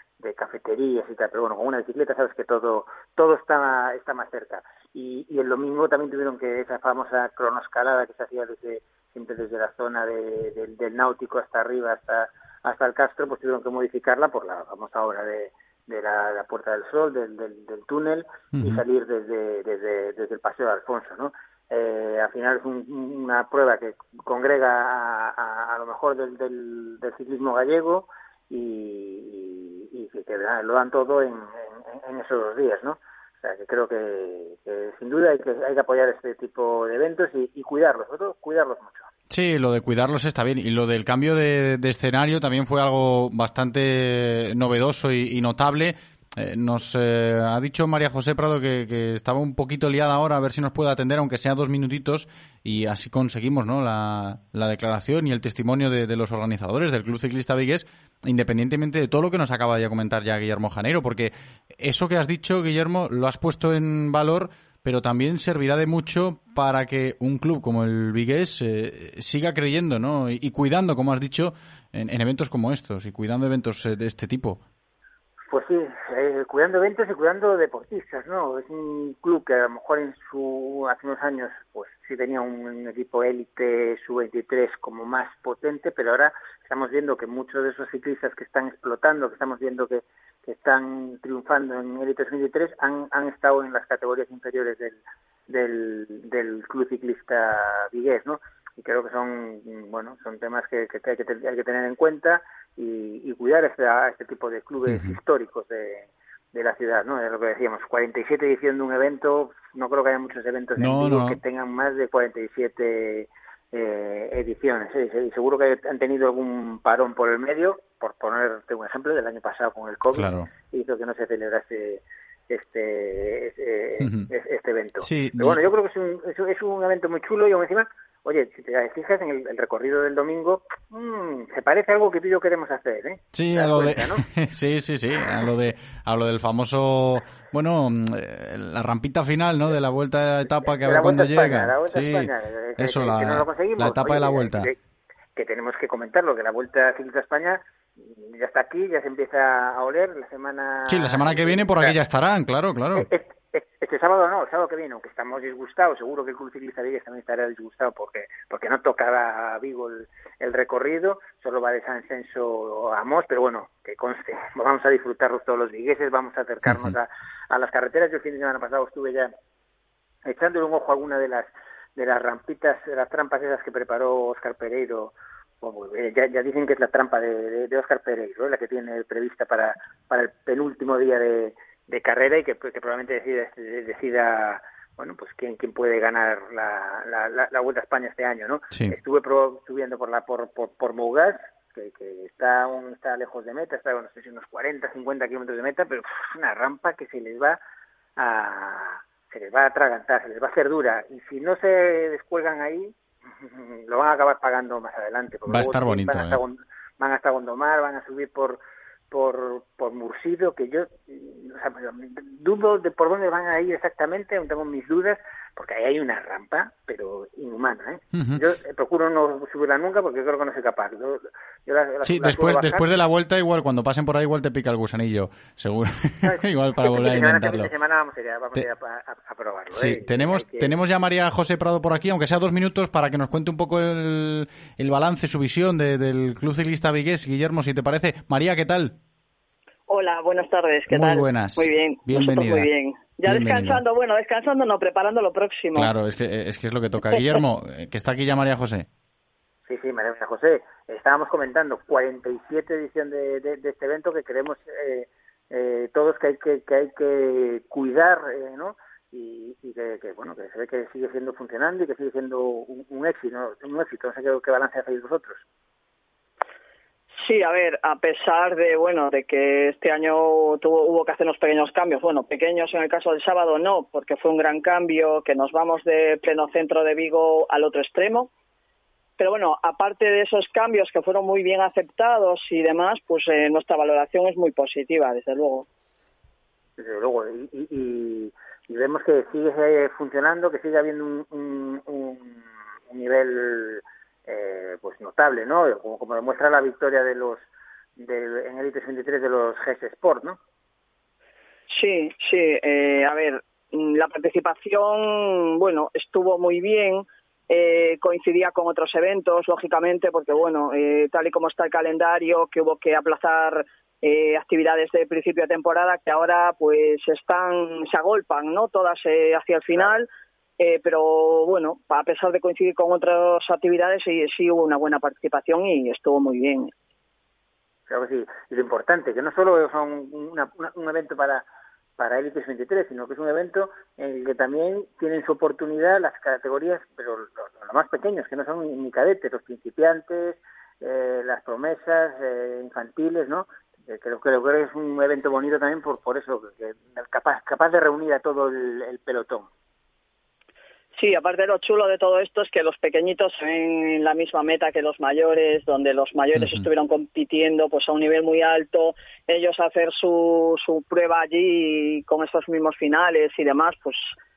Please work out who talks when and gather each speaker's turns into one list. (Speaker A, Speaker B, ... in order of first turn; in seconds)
Speaker A: 0.2-39.0, 75.5-134.2, 140.6-144.7, 145.3-151.9, 152.9-169.3, 170.2-197.6, 198.2-223.0, 226.2-230.8, 249.7-265.4, 286.8-297.4, 298.0-300.4, 327.9-331.4, 332.0-349.5
Speaker B: 18.5-18.8, 39.3-74.6, 104.9-105.2, 110.8-111.4, 120.1-120.5, 124.0-124.3, 125.0-125.7, 133.3-144.7, 150.9-153.1, 166.7-166.9, 188.7-189.0, 205.5-206.4, 218.1-218.4, 222.0-227.7, 229.7-238.9, 240.9-242.7, 243.2-243.8, 245.7-248.9, 356.4-356.6
Speaker C: 239.9-245.9, 267.2-278.3, 279.2-285.6, 301.7-320.1, 320.6-326.7, 350.9-364.1